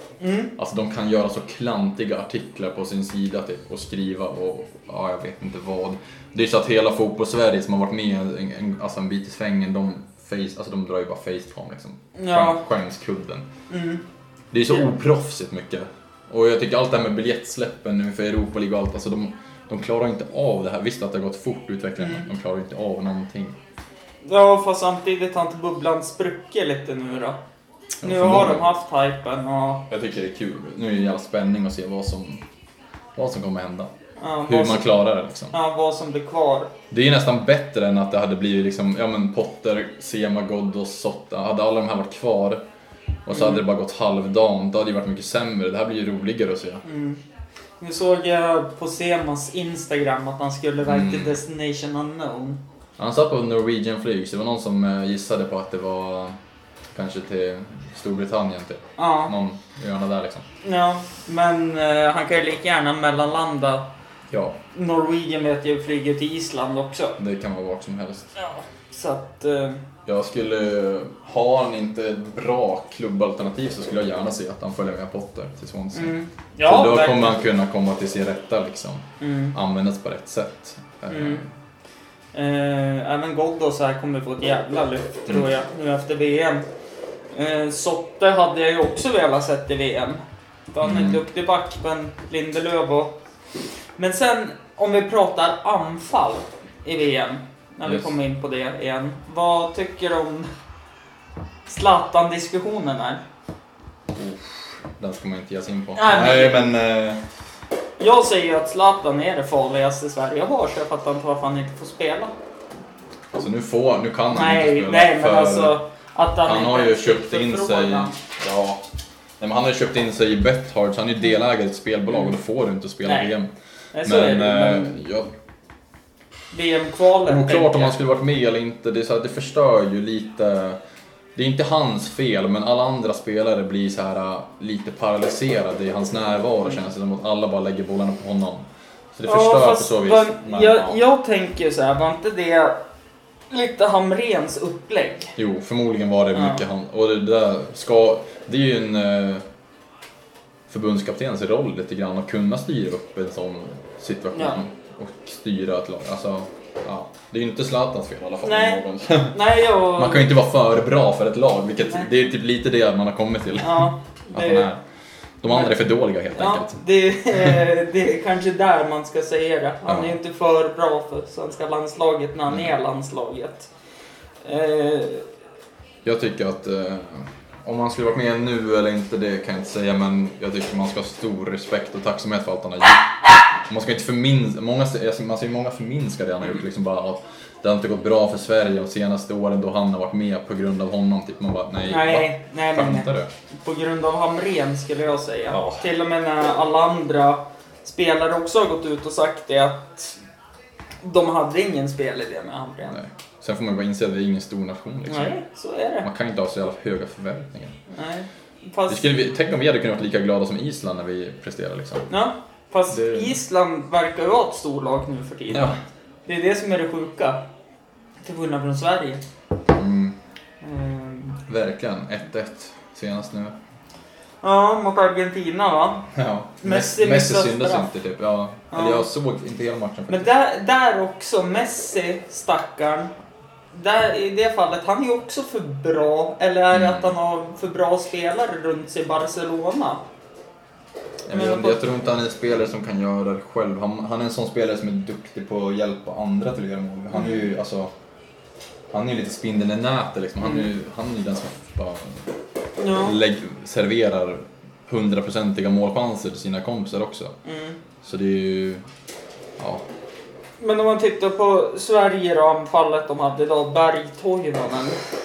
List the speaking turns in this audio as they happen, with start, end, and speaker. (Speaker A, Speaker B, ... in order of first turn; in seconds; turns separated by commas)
Speaker A: 0.2-0.5, Speaker B: 0.6-13.5, Speaker A: 12.2-12.6, Speaker A: 13.7-14.0, Speaker B: 14.5-23.6, Speaker A: 22.0-22.3, Speaker A: 24.2-27.4, Speaker B: 28.0-28.7, Speaker A: 28.0-29.9, Speaker B: 29.9-32.4, Speaker B: 33.1-33.9, Speaker A: 34.2-34.9, Speaker B: 34.5-35.5, Speaker A: 35.5-36.7, Speaker B: 36.9-42.6, Speaker B: 43.2-46.8, Speaker A: 43.3-43.6, Speaker A: 46.8-47.2, Speaker A: 47.8-52.6, Speaker B: 50.8-51.4, Speaker B: 53.0-56.3, Speaker B: 56.9-60.4, Speaker A: 59.0-59.3, Speaker A: 60.6-63.9, Speaker B: 64.3-64.6, Speaker A: 64.7-67.2, Speaker B: 67.2-68.3, Speaker A: 68.3-69.8, Speaker B: 70.0-81.5, Speaker A: 75.9-77.4, Speaker A: 79.2-79.5, Speaker A: 81.1-81.4, Speaker A: 82.3-86.7, Speaker A: 87.3-93.1, Speaker B: 90.8-91.2, Speaker A: 94.0-100.5, Speaker B: 97.8-98.1, Speaker A: 101.7-103.2, Speaker B: 104.1-107.2, Speaker A: 105.9-106.7, Speaker A: 108.0-112.3, Speaker B: 113.3-115.8, Speaker A: 114.3-118.1, Speaker B: 116.4-118.8, Speaker B: 119.4-123.5, Speaker A: 123.0-123.3, Speaker A: 123.9-125.0, Speaker B: 124.0-125.3, Speaker A: 126.5-128.0, Speaker B: 127.2-130.8, Speaker B: 131.3-141.0, Speaker A: 139.2-142.8, Speaker A: 143.5-145.3, Speaker B: 145.4-149.4, Speaker A: 146.3-146.6, Speaker B: 150.7-159.4, Speaker A: 154.3-154.6, Speaker A: 158.4-160.3, Speaker B: 159.9-164.8, Speaker A: 163.6-164.7, Speaker B: 165.4-167.7, Speaker A: 165.5-165.8, Speaker A: 166.3-173.7, Speaker B: 169.8-170.2, Speaker A: 174.4-175.2, Speaker B: 176.0-183.1, Speaker B: 183.7-193.3, Speaker A: 191.9-200.2, Speaker B: 195.5-195.8, Speaker A: 201.0-203.0, Speaker B: 202.9-205.3, Speaker A: 205.1-206.1, Speaker B: 206.0-207.8, Speaker A: 207.9-209.1, Speaker B: 208.9-212.1, Speaker A: 212.1-215.7, Speaker B: 212.9-213.4, Speaker B: 215.5-215.8, Speaker A: 216.2-217.4, Speaker A: 218.2-219.2, Speaker B: 219.7-220.2, Speaker A: 220.6-221.4, Speaker B: 221.4-223.6, Speaker A: 224.4-226.1, Speaker B: 226.1-230.3, Speaker A: 226.6-227.9, Speaker A: 228.7-229.1, Speaker A: 230.1-233.1, Speaker A: 233.7-240.0, Speaker B: 236.7-237.1, Speaker B: 241.3-247.9, Speaker A: 241.3-241.9, Speaker A: 247.1-247.4, Speaker B: 248.9-252.3, Speaker A: 250.4-250.7, Speaker A: 252.8-253.2, Speaker B: 252.9-257.4, Speaker A: 257.4-257.8, Speaker B: 258.0-258.8, Speaker B: 259.6-259.8, Speaker A: 260.6-265.0